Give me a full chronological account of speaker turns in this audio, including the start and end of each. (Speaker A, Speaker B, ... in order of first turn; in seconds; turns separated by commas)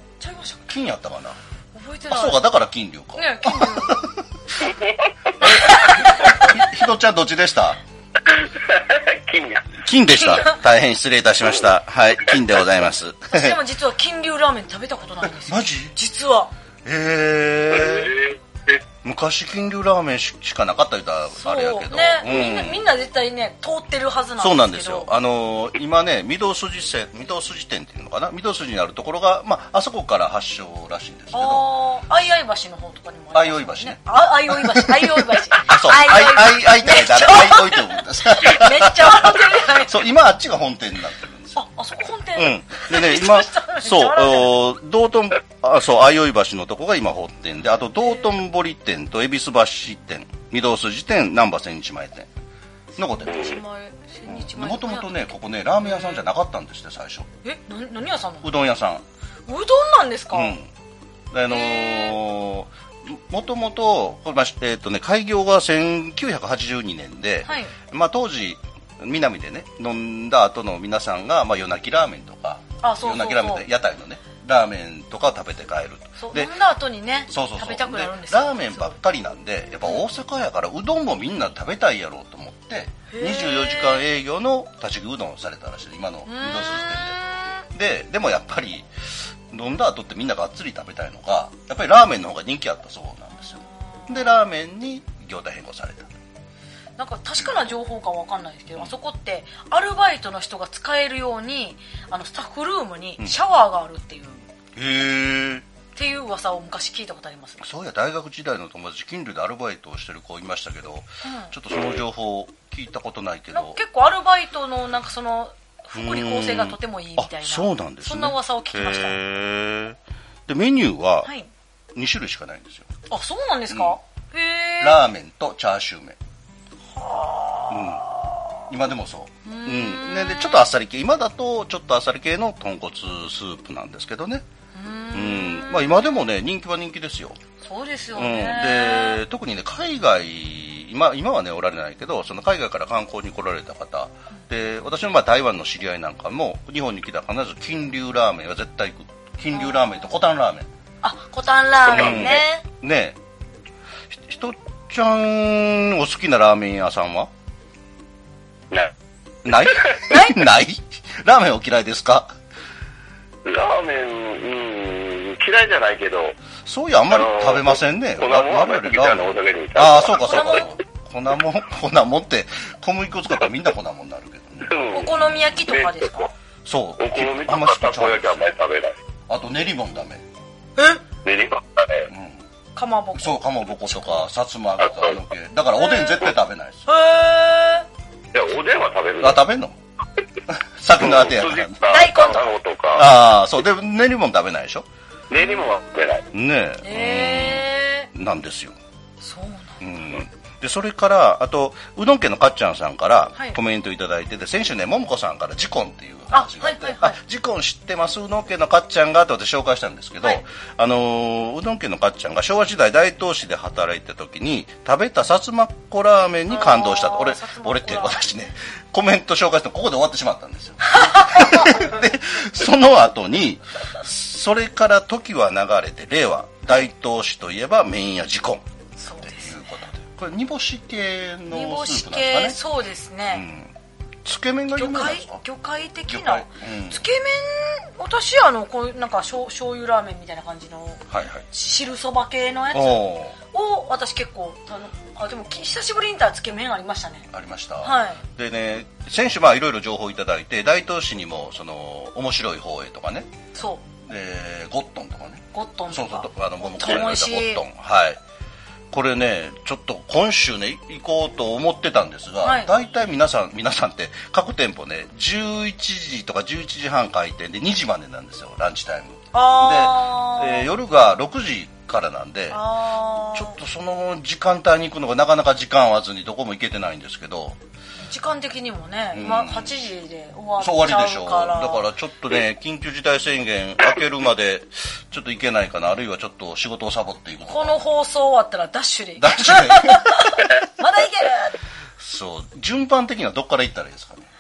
Speaker A: 0.2-0.6, Speaker B: 0.7-1.4, Speaker A: 1.7-2.4, Speaker B: 2.1-4.2, Speaker A: 3.1-4.0, Speaker C: 4.6-5.0, Speaker B: 5.4-7.8, Speaker A: 5.4-6.6, Speaker C: 8.2-9.8, Speaker B: 9.8-13.6, Speaker A: 10.3-10.5, Speaker A: 13.3-16.5, Speaker B: 15.4-15.9, Speaker B: 16.8-18.1, Speaker C: 17.7-18.8, Speaker B: 19.0-22.8, Speaker A: 21.4-25.1, Speaker B: 24.4-31.7, Speaker A: 31.3-40.0, Speaker B: 33.3-41.6, Speaker A: 41.5-44.5, Speaker B: 42.4-52.3, Speaker B: 53.0-53.6, Speaker A: 53.0-55.3, Speaker B: 54.2-57.3, Speaker A: 55.8-56.2, Speaker A: 57.4-58.5, Speaker B: 58.4-59.0, Speaker A: 59.5-60.5, Speaker B: 60.3-60.7, Speaker B: 61.3-76.5, Speaker A: 61.5-62.1, Speaker A: 67.5-67.7, Speaker A: 72.8-73.6, Speaker A: 76.2-79.0, Speaker B: 77.3-87.2, Speaker A: 83.1-84.0, Speaker A: 86.2-87.6, Speaker B: 87.7-88.9, Speaker B: 89.5-96.1, Speaker A: 93.4-94.4, Speaker A: 97.0-104.4, Speaker B: 104.8-105.7, Speaker A: 105.9-107.6, Speaker B: 107.6-113.8, Speaker A: 111.2-111.5, Speaker A: 113.5-119.2, Speaker B: 115.9-121.3, Speaker B: 121.9-122.9, Speaker A: 123.1-125.0, Speaker B: 123.7-124.0, Speaker B: 124.8-126.2, Speaker A: 126.9-128.5, Speaker B: 127.7-128.0, Speaker B: 128.7-134.4, Speaker A: 129.4-130.7, Speaker A: 134.7-136.0, Speaker B: 135.1-137.4, Speaker A: 137.6-139.2, Speaker B: 138.1-150.7, Speaker A: 149.5-149.9, Speaker A: 151.0-152.6, Speaker B: 151.9-153.2, Speaker B: 154.1-157.3, Speaker B: 159.4-162.3, Speaker A: 160.1-160.4, Speaker C: 163.4-166.3, Speaker B: 166.6-175.3, Speaker C: 167.1-170.6, Speaker A: 170.2-170.7, Speaker C: 174.6-175.1, Speaker A: 174.9-176.3, Speaker C: 175.7-176.3, Speaker B: 176.6-178.3, Speaker C: 177.0-178.9, Speaker B: 179.3-180.2, Speaker C: 181.2-182.1, Speaker B: 182.1-182.4, Speaker A: 182.8-184.2, Speaker B: 183.1-186.9, Speaker C: 184.8-185.2, Speaker A: 185.8-186.2, Speaker A: 186.9-187.8, Speaker C: 188.3-189.4, Speaker B: 189.2-189.8, Speaker B: 190.5-192.0, Speaker C: 191.0-193.1, Speaker A: 191.9-192.5, Speaker B: 192.9-194.8, Speaker C: 195.3-196.3, Speaker B: 196.3-198.8, Speaker A: 196.8-198.1, Speaker A: 199.2-199.8, Speaker B: 199.8-228.6, Speaker A: 206.3-207.2, Speaker A: 216.5-218.2, Speaker A: 220.9-221.9, Speaker A: 229.0-229.8, Speaker B: 229.2-232.6, Speaker A: 231.5-233.4, Speaker B: 233.3-233.7, Speaker B: 234.2-235.4, Speaker A: 234.8-247.3, Speaker B: 236.1-237.0, Speaker B: 241.1-241.4, Speaker B: 242.7-243.3, Speaker B: 247.3-253.3, Speaker A: 247.8-248.2, Speaker A: 253.5-253.8, Speaker B: 254.0-258.2, Speaker A: 255.5-257.6, Speaker B: 258.9-272.6, Speaker A: 262.4-262.7, Speaker A: 269.3-270.7, Speaker A: 272.5-273.6, Speaker B: 273.3-277.6, Speaker A: 278.0-281.8, Speaker B: 279.1-279.7, Speaker B: 280.6-287.8, Speaker A: 287.5-291.6, Speaker B: 289.2-290.4, Speaker B: 292.0-294.3